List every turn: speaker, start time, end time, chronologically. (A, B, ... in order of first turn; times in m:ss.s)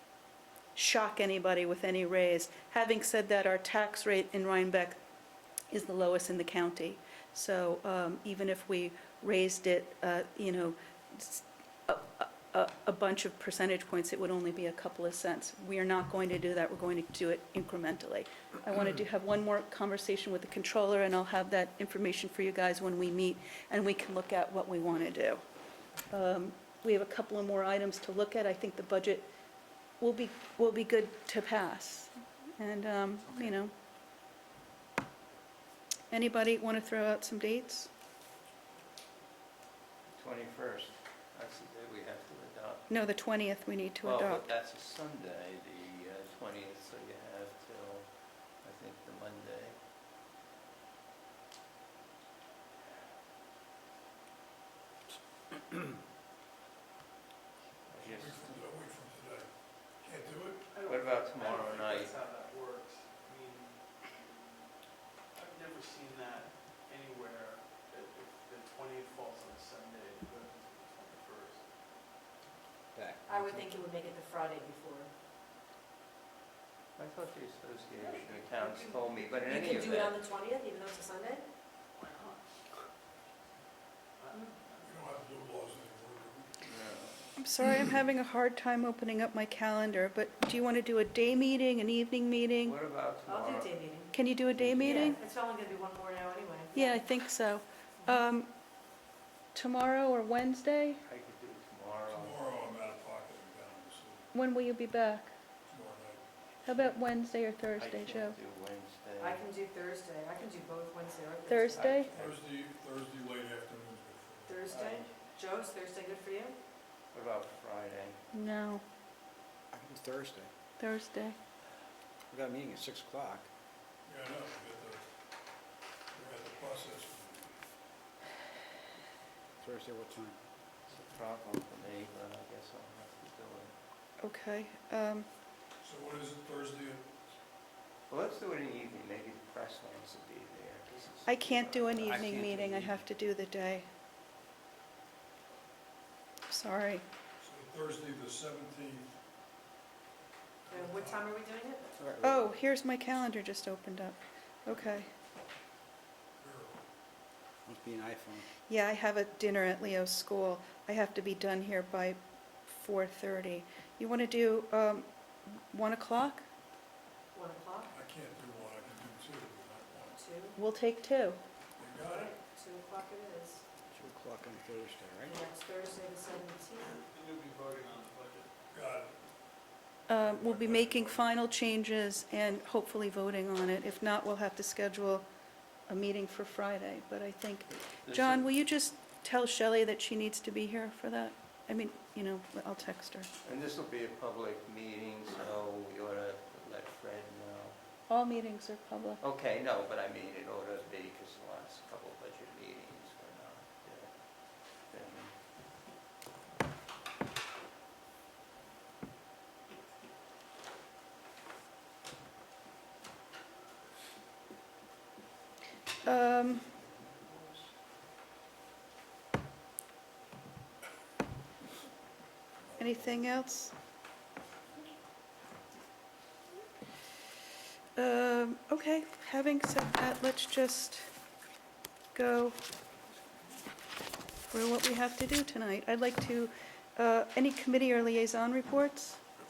0:00.8-0:05.0 A
0:05.7-0:25.4 A
0:26.1-0:29.3 A
0:30.0-0:33.7 A
0:36.1-0:37.9 A
0:40.1-0:42.9 B
0:42.9-0:44.4 A
0:44.0-0:49.8 B
0:57.9-0:58.6 B
0:58.0-1:00.8 C
1:00.7-1:11.9 D
1:00.8-1:02.2 B
1:12.9-1:13.7 E
1:13.3-1:15.1 F
1:17.0-1:20.2 B
1:18.0-1:21.4 F
1:22.0-1:22.8 D
1:24.2-1:25.1 D
1:24.8-1:27.1 C
1:26.6-1:27.2 B
1:27.4-1:32.8 A
1:32.6-1:33.8 B
1:33.3-1:34.1 F
1:34.1-1:35.2 A
1:34.6-1:35.1 B
1:34.8-1:37.0 F
1:36.7-1:38.5 A
1:39.5-1:41.0 A
1:41.0-1:42.4 B
1:42.1-1:44.3 C
1:44.3-1:45.3 A
1:45.7-1:46.9 C
1:46.6-1:48.4 A
1:47.8-1:49.4 B
1:49.2-1:52.1 F
1:51.5-1:52.1 A
1:51.8-1:52.4 B
1:52.1-1:54.8 C
1:54.5-1:56.6 F
1:54.7-1:55.1 B
1:57.1-1:58.2 B
1:58.3-1:58.8 A
1:59.7-2:00.5 E
2:00.8-2:01.4 A
2:02.3-2:03.5 E
2:04.1-2:05.0 C
2:06.1-2:07.6 C
2:09.6-2:10.4 E
2:10.9-2:13.8 B
2:14.2-2:15.3 A
2:15.8-2:17.1 C
2:18.1-2:23.0 B
2:21.3-2:23.9 A
2:26.5-2:27.0 A
2:27.4-2:29.2 C
2:30.7-2:31.3 C
2:30.7-2:31.9 F
2:32.0-2:32.5 E
2:32.2-2:35.1 A
2:36.4-2:36.8 C
2:37.6-2:38.5 E
2:38.7-2:46.5 A
2:47.3-2:47.9 F
2:47.9-2:50.2 C
2:50.2-2:50.6 F
2:50.6-2:51.4 A
2:51.8-2:52.4 C
2:52.3-2:53.6 F
2:53.9-2:55.4 E
2:55.3-2:57.0 F
2:56.8-2:58.5 D
2:58.7-2:59.2 C
3:00.1-3:05.3 A
3:00.1-3:01.4 C
3:05.9-3:13.3 A
3:07.9-3:08.5 B
3:13.4-3:17.8 B
3:18.1-3:19.2 A
3:19.2-3:25.4 B
3:36.0-3:36.7 A
3:36.1-3:37.7 B
3:42.6-3:43.2 C
3:42.8-3:43.7 A
3:48.0-3:51.1 A
3:52.1-3:52.6 A
3:54.5-3:59.2 A